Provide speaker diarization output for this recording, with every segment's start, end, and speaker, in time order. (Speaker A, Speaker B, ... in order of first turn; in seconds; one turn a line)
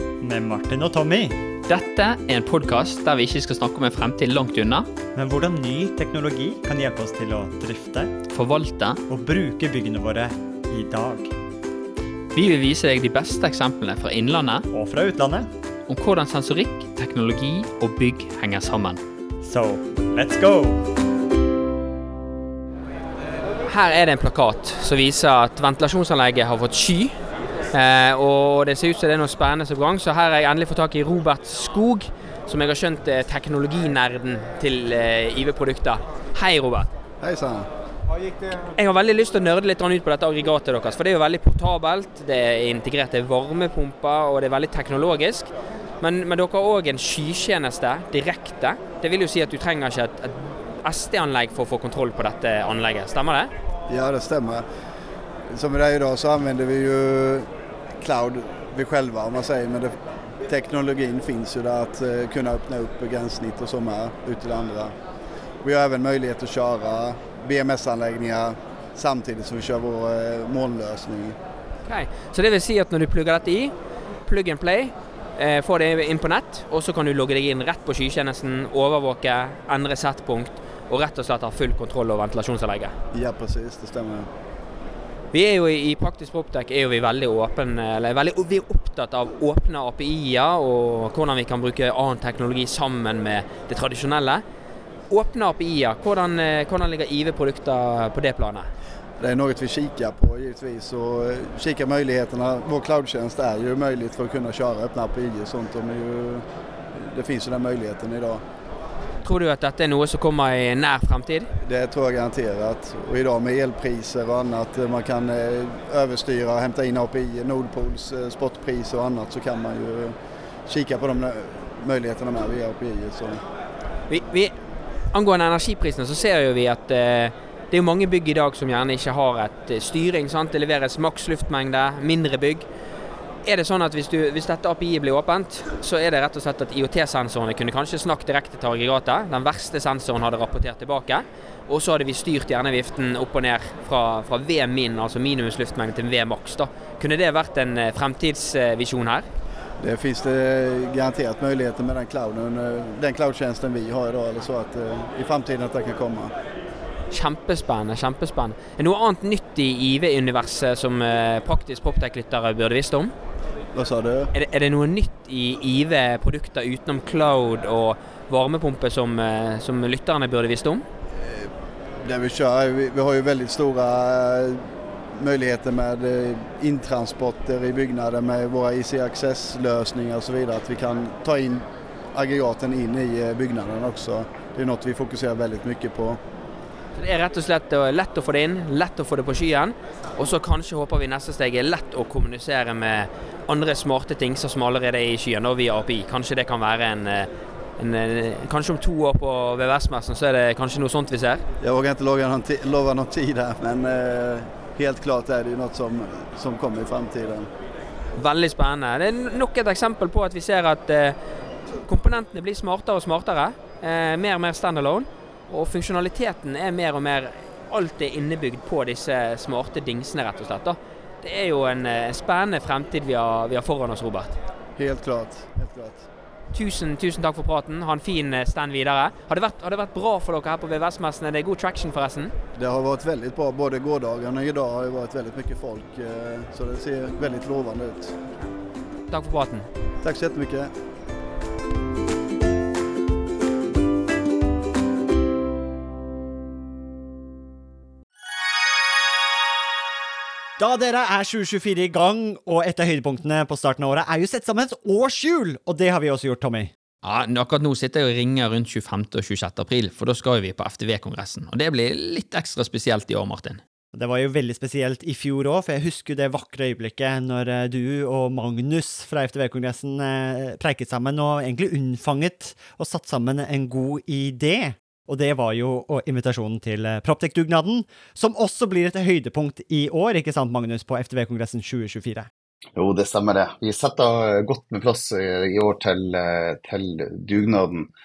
Speaker A: 0.2-1.4
Speaker B: 1.7-4.9
Speaker A: 5.2-8.2
Speaker B: 8.3-9.0
Speaker A: 9.1-11.3
Speaker B: 12.3-14.6
Speaker A: 14.7-15.5
Speaker B: 15.9-19.0
Speaker A: 19.4-20.8
Speaker B: 23.7-27.1
Speaker B: 27.7-36.9
Speaker C: 37.2-37.7
Speaker B: 38.7-45.5
Speaker B: 46.0-53.5
Speaker C: 53.9-54.6
Speaker C: 55.5-57.5
Speaker C: 58.0-59.9
Speaker C: 60.5-64.9
Speaker C: 65.6-71.4
Speaker B: 71.8-73.7
Speaker B: 74.2-82.9
Speaker C: 83.1-84.3
Speaker B: 85.3-94.4
Speaker B: 95.1-98.7
Speaker C: 99.2-106.4
Speaker C: 107.0-108.4
Speaker B: 109.2-111.5
Speaker C: 111.6-120.2
Speaker C: 120.7-123.4
Speaker B: 124.1-124.5
Speaker B: 125.1-132.7
Speaker B: 133.4-149.3
Speaker C: 149.8-156.3
Speaker B: 157.1-163.1
Speaker C: 163.7-164.3
Speaker B: 164.3-170.8
Speaker C: 171.2-171.5
Speaker C: 172.0-186.2
Speaker B: 186.9-201.4
Speaker C: 201.6-207.5
Speaker B: 208.2-211.2
Speaker B: 211.8-224.4
Speaker C: 224.8-226.1
Speaker B: 226.5-232.3
Speaker C: 232.6-238.2
Speaker B: 239.1-239.7
Speaker C: 240.0-240.7
Speaker A: 250.6-256.7
Speaker B: 257.0-263.6
Speaker A: 263.9-282.3
Speaker D: 282.8-287.9